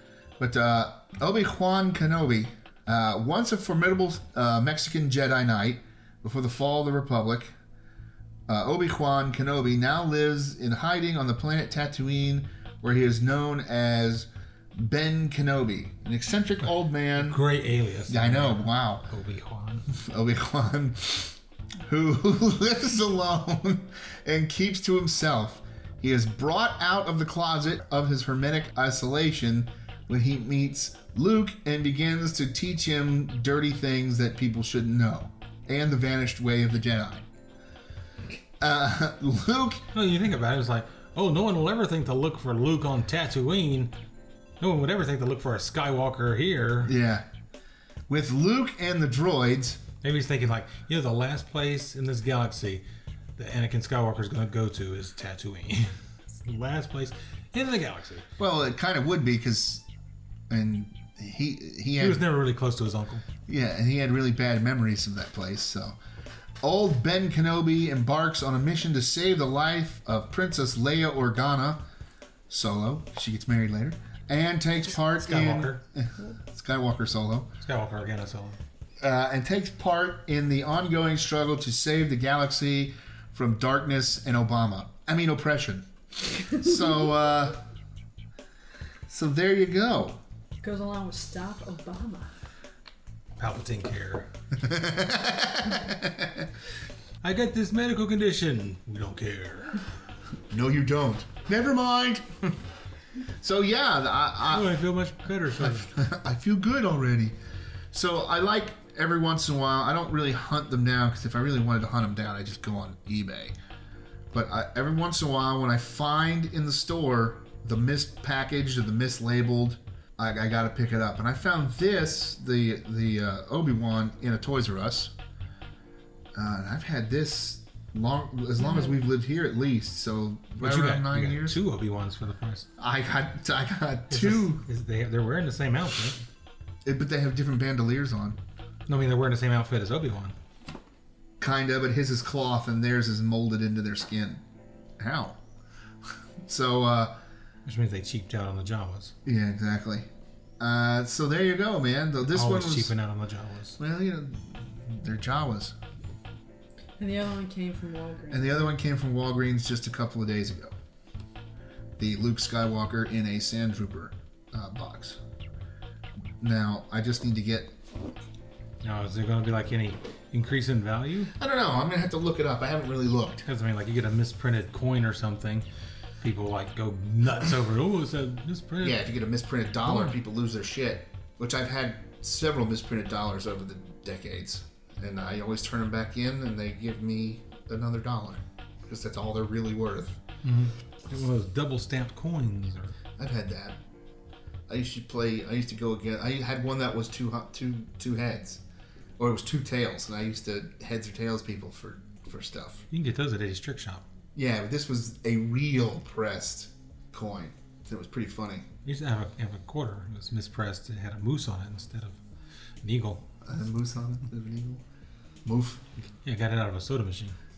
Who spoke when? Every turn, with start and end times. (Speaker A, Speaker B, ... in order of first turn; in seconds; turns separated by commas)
Speaker A: 0.4-7.5, Speaker A: 8.5-17.4, Speaker B: 16.6-19.8, Speaker A: 18.1-19.1, Speaker A: 19.9-37.2, Speaker A: 38.6-39.9, Speaker B: 39.9-43.9, Speaker B: 44.6-46.9, Speaker A: 46.8-47.2, Speaker A: 48.1-49.8, Speaker B: 50.0-52.8, Speaker B: 53.4-58.2, Speaker A: 58.4-59.8, Speaker A: 60.5-62.2, Speaker B: 62.0-63.2, Speaker A: 63.5-66.0, Speaker A: 66.6-71.8, Speaker A: 72.5-77.5, Speaker B: 75.0-75.8, Speaker B: 77.6-78.6, Speaker A: 79.0-87.6, Speaker A: 89.1-90.2, Speaker C: 90.6-92.3, Speaker B: 93.4-94.3, Speaker A: 94.5-96.5, Speaker B: 97.2-99.8, Speaker A: 100.5-102.5, Speaker A: 103.4-104.8, Speaker B: 104.5-105.9, Speaker A: 105.6-107.3, Speaker A: 107.9-113.5, Speaker A: 114.3-125.1, Speaker A: 126.3-131.6, Speaker B: 130.6-132.7, Speaker A: 132.8-134.6, Speaker B: 134.1-136.2, Speaker A: 136.8-138.4, Speaker B: 138.9-140.3, Speaker A: 141.4-144.4, Speaker A: 145.0-145.4, Speaker A: 146.4-147.2, Speaker B: 147.6-149.1, Speaker A: 149.2-150.1, Speaker A: 150.6-152.9, Speaker B: 152.2-153.8, Speaker A: 153.8-155.7, Speaker C: 157.0-158.7, Speaker A: 158.3-160.7, Speaker A: 162.0-165.2, Speaker A: 166.4-167.8, Speaker B: 168.8-171.3, Speaker A: 171.4-173.4, Speaker B: 173.4-175.7, Speaker B: 176.2-179.0, Speaker A: 178.8-190.2, Speaker B: 179.8-180.2, Speaker B: 190.4-192.9, Speaker A: 193.2-193.8, Speaker A: 194.7-198.6, Speaker A: 199.2-202.8, Speaker B: 202.9-204.0, Speaker A: 204.3-208.6, Speaker B: 208.8-212.2, Speaker B: 212.8-213.2, Speaker A: 213.4-214.8, Speaker A: 215.4-215.8, Speaker B: 216.2-217.3